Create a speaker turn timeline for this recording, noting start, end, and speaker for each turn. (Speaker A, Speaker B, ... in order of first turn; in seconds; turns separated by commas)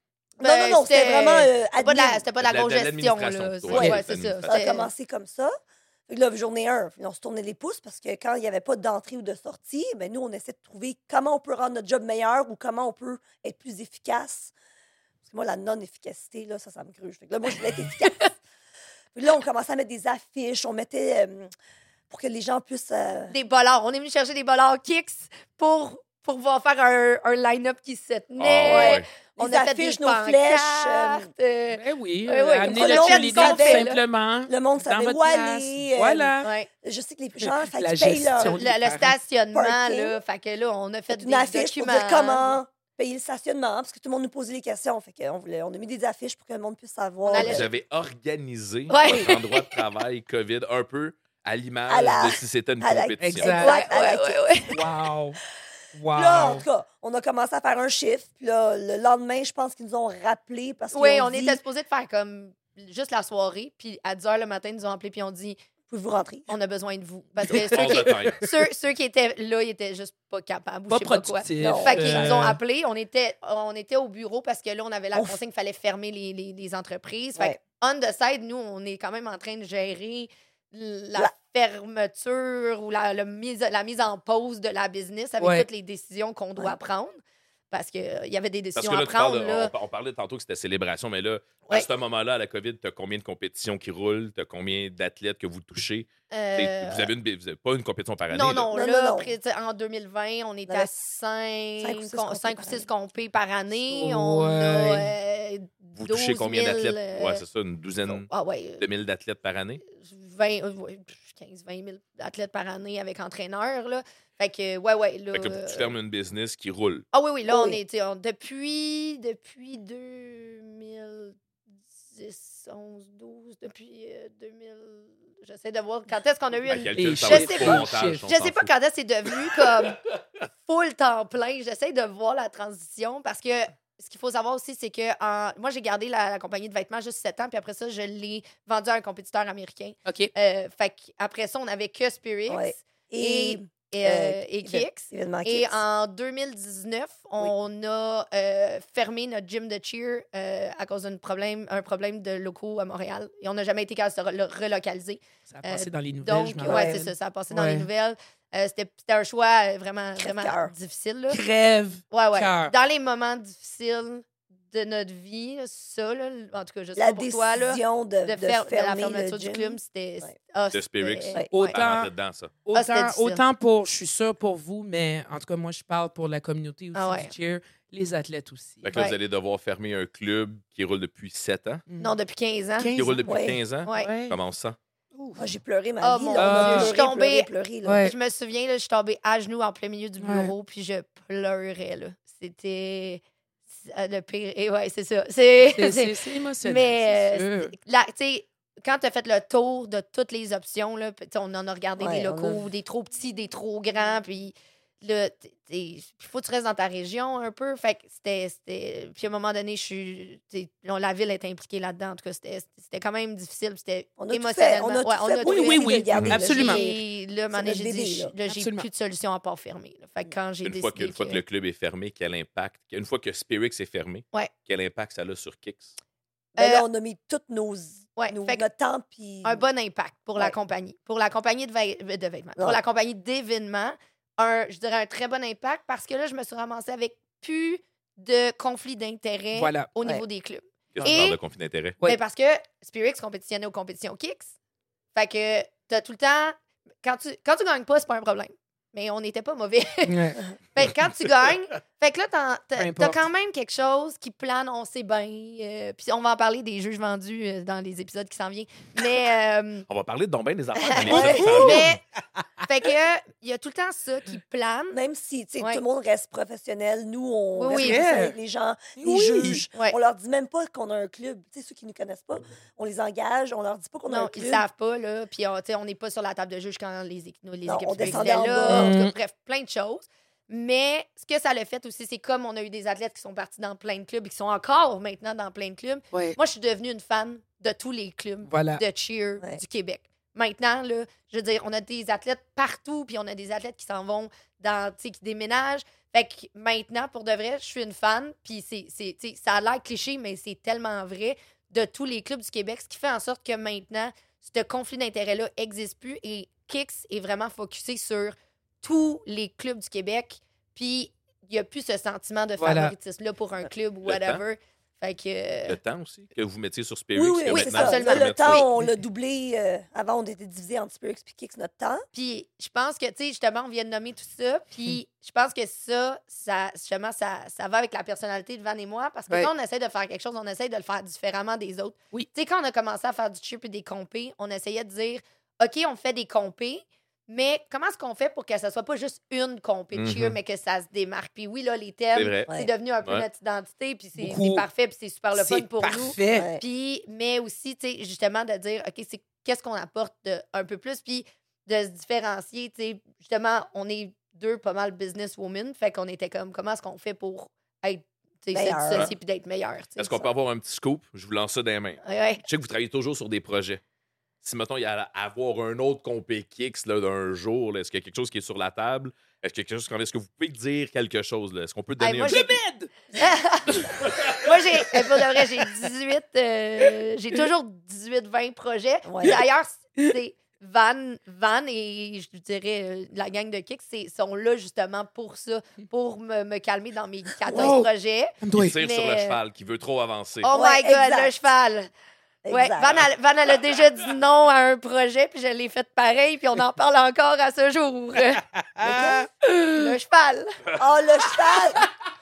Speaker A: 0.4-2.2, Speaker B: 0.4-4.9, Speaker C: 2.4-4.6, Speaker A: 3.7-5.5, Speaker A: 6.1-14.5, Speaker A: 15.2-18.4, Speaker A: 19.1-21.5, Speaker A: 22.1-23.3, Speaker B: 23.3-34.0, Speaker C: 28.4-29.1, Speaker A: 28.6-31.3, Speaker D: 31.7-36.5, Speaker A: 32.6-33.9, Speaker A: 34.5-38.6, Speaker B: 36.4-36.7, Speaker D: 37.4-39.2, Speaker B: 38.4-42.6, Speaker A: 39.5-40.2, Speaker A: 41.1-47.7, Speaker B: 47.2-47.7, Speaker C: 47.3-53.6, Speaker B: 48.9-49.8, Speaker A: 51.9-54.4, Speaker D: 53.2-53.9, Speaker B: 53.6-54.8, Speaker D: 54.7-55.4, Speaker D: 55.9-56.6, Speaker A: 56.1-61.6, Speaker B: 60.9-65.6, Speaker A: 65.9-66.5, Speaker B: 66.5-87.2, Speaker C: 67.5-68.4, Speaker D: 67.5-68.5, Speaker D: 70.9-72.6, Speaker A: 71.6-72.5, Speaker D: 85.4-85.7, Speaker B: 87.7-89.7, Speaker C: 88.8-98.7, Speaker B: 96.3-97.1, Speaker B: 98.3-107.4, Speaker A: 98.7-99.3, Speaker A: 101.8-102.9, Speaker D: 103.9-105.1, Speaker C: 106.0-109.8, Speaker B: 108.1-108.8, Speaker B: 109.9-115.9, Speaker C: 115.3-117.0, Speaker B: 117.1-121.3, Speaker A: 117.5-117.8, Speaker B: 122.1-130.0, Speaker C: 126.7-128.7, Speaker D: 126.9-128.2, Speaker B: 130.6-161.4, Speaker D: 140.1-140.3, Speaker A: 142.5-145.8, Speaker D: 155.5-157.9, Speaker A: 156.6-157.0, Speaker A: 160.2-160.7, Speaker D: 161.3-162.7, Speaker B: 162.1-171.8, Speaker A: 166.9-170.3, Speaker C: 170.7-172.5, Speaker D: 171.5-172.1, Speaker D: 172.6-179.0, Speaker B: 172.7-173.4, Speaker B: 176.9-177.3, Speaker C: 178.8-181.8, Speaker D: 181.9-182.1, Speaker B: 182.0-182.9, Speaker D: 182.8-184.4, Speaker C: 182.9-184.8, Speaker A: 183.2-183.6, Speaker B: 183.8-184.1, Speaker D: 185.2-185.4, Speaker A: 185.3-188.1, Speaker B: 186.0-187.5, Speaker D: 186.3-186.9, Speaker D: 187.8-188.1, Speaker B: 188.0-193.2, Speaker D: 190.2-190.5, Speaker B: 193.8-221.4, Speaker D: 195.6-197.7, Speaker A: 202.0-202.6, Speaker A: 214.2-218.3, Speaker D: 215.4-216.8, Speaker D: 218.5-218.9, Speaker C: 220.6-225.9, Speaker A: 226.6-229.6, Speaker B: 226.6-226.8, Speaker B: 228.2-228.6, Speaker B: 229.4-241.4, Speaker D: 239.5-239.9, Speaker C: 240.9-242.0, Speaker B: 242.0-244.5, Speaker B: 245.1-259.9, Speaker D: 250.1-250.4, Speaker D: 252.8-253.2, Speaker C: 259.9-261.9, Speaker B: 260.8-262.0, Speaker D: 261.0-261.9, Speaker A: 261.1-261.7, Speaker B: 262.6-265.0, Speaker A: 264.9-274.6, Speaker B: 267.6-268.0, Speaker D: 267.7-268.4, Speaker D: 269.0-269.6, Speaker B: 274.1-315.8, Speaker A: 277.6-278.9, Speaker D: 278.0-279.1, Speaker D: 286.1-286.4, Speaker D: 288.4-288.8, Speaker D: 312.6-312.9, Speaker C: 314.0-314.4, Speaker C: 315.7-318.6, Speaker A: 317.1-322.0, Speaker B: 317.5-318.6, Speaker B: 322.1-360.3, Speaker C: 339.9-340.4, Speaker C: 342.1-342.5, Speaker D: 344.2-344.6, Speaker D: 345.3-346.5, Speaker A: 346.3-346.6, Speaker A: 358.5-359.1, Speaker C: 360.0-363.8, Speaker B: 362.0-362.4, Speaker C: 364.4-372.5, Speaker B: 372.0-372.6, Speaker D: 372.2-373.1, Speaker B: 373.1-389.4, Speaker D: 373.7-375.7, Speaker C: 374.1-374.3, Speaker A: 379.0-379.4, Speaker D: 387.4-388.8, Speaker A: 387.5-387.8, Speaker C: 388.5-390.5, Speaker B: 390.4-391.9, Speaker A: 390.5-391.3, Speaker A: 392.4-393.0, Speaker B: 392.5-398.4, Speaker D: 398.3-399.9, Speaker A: 398.8-399.3, Speaker B: 399.7-400.6, Speaker A: 400.8-401.8